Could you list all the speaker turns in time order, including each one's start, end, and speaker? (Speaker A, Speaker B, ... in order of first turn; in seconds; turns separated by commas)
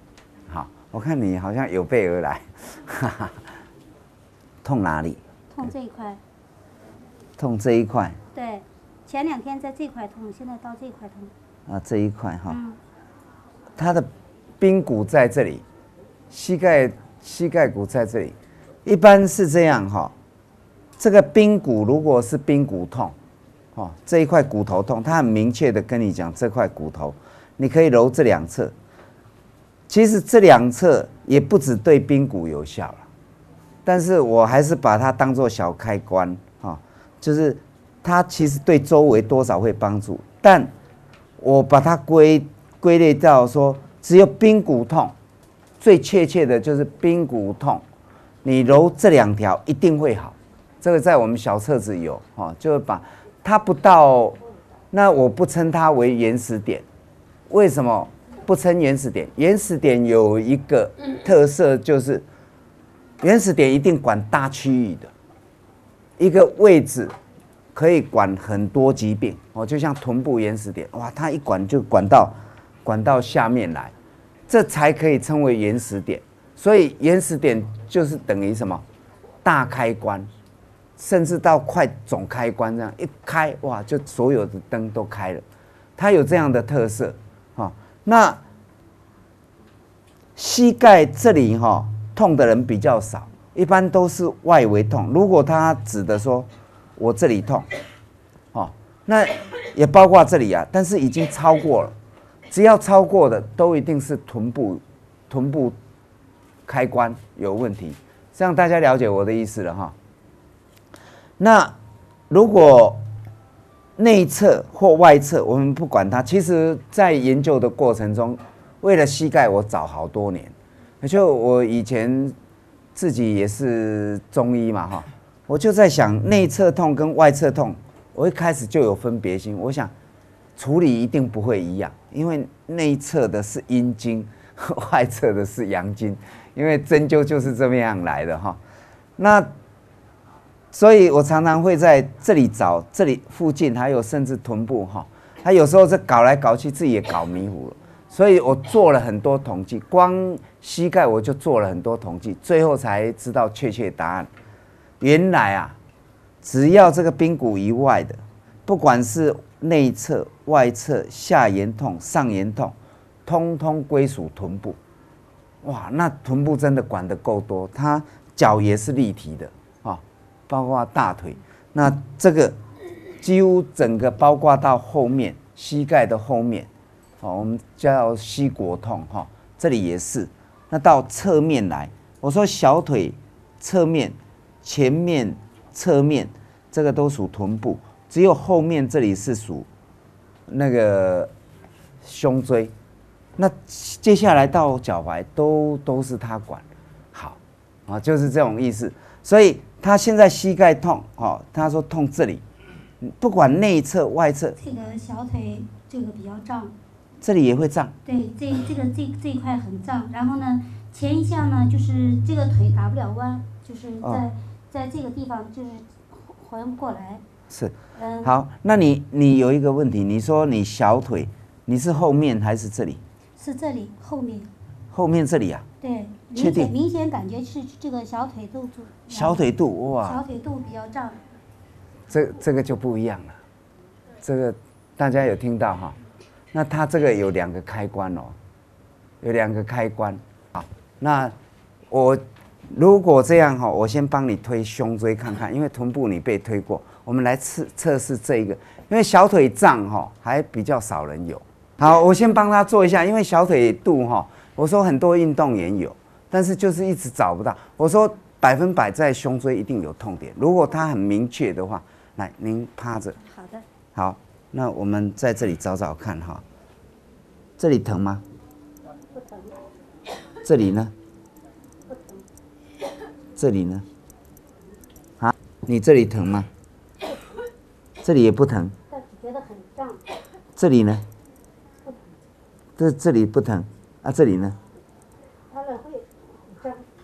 Speaker A: 0.5-3.4, Speaker A: 4.6-5.2, Speaker B: 5.5-6.2, Speaker A: 7.4-8.2, Speaker B: 8.3-11.3, Speaker A: 11.7-12.6, Speaker B: 12.5-12.8, Speaker A: 13.8-14.1, Speaker A: 14.6-15.6, Speaker A: 16.3-20.1, Speaker A: 21.0-23.1, Speaker A: 23.7-28.7, Speaker A: 29.9-33.1, Speaker A: 33.8-40.7, Speaker A: 41.4-45.1, Speaker A: 45.8-47.8, Speaker A: 48.4-54.4, Speaker A: 54.9-56.8, Speaker A: 57.5-62.2, Speaker A: 63.2-65.1, Speaker A: 66.2-67.1, Speaker A: 67.7-73.9, Speaker A: 74.5-78.8, Speaker A: 79.4-80.3, Speaker A: 81.0-85.4, Speaker A: 86.0-88.4, Speaker A: 90.3-97.7, Speaker A: 98.5-101.9, Speaker A: 102.5-105.8, Speaker A: 106.7-109.9, Speaker A: 111.4-111.7, Speaker A: 112.3-113.0, Speaker A: 114.0-122.3, Speaker A: 122.9-129.9, Speaker A: 130.6-138.6, Speaker A: 139.2-139.5, Speaker A: 140.7-154.3, Speaker A: 155.0-155.8, Speaker A: 156.4-162.7, Speaker A: 163.2-164.8, Speaker A: 165.6-172.6, Speaker A: 173.2-176.7, Speaker A: 177.2-189.7, Speaker A: 190.5-191.3, Speaker A: 192.0-192.7, Speaker A: 193.3-202.4, Speaker A: 203.0-204.6, Speaker B: 204.6-206.7, Speaker A: 207.2-207.9, Speaker B: 208.0-217.2, Speaker A: 214.0-214.3, Speaker A: 217.5-223.0, Speaker B: 217.9-218.3, Speaker B: 223.4-224.5, Speaker A: 224.9-225.7, Speaker B: 225.8-231.2, Speaker A: 226.3-226.7, Speaker A: 229.1-230.2, Speaker A: 232.1-233.4, Speaker A: 234.2-235.9, Speaker A: 236.5-238.3, Speaker A: 239.2-241.3, Speaker A: 241.9-263.2, Speaker B: 263.2-263.6, Speaker A: 263.9-266.4, Speaker A: 267.6-268.2, Speaker B: 269.1-269.7, Speaker A: 270.4-270.9, Speaker B: 271.9-272.2, Speaker A: 273.4-273.9, Speaker A: 275.2-276.5, Speaker A: 278.0-278.8, Speaker B: 278.9-280.0, Speaker A: 280.6-281.1, Speaker A: 282.8-284.6, Speaker B: 285.5-286.9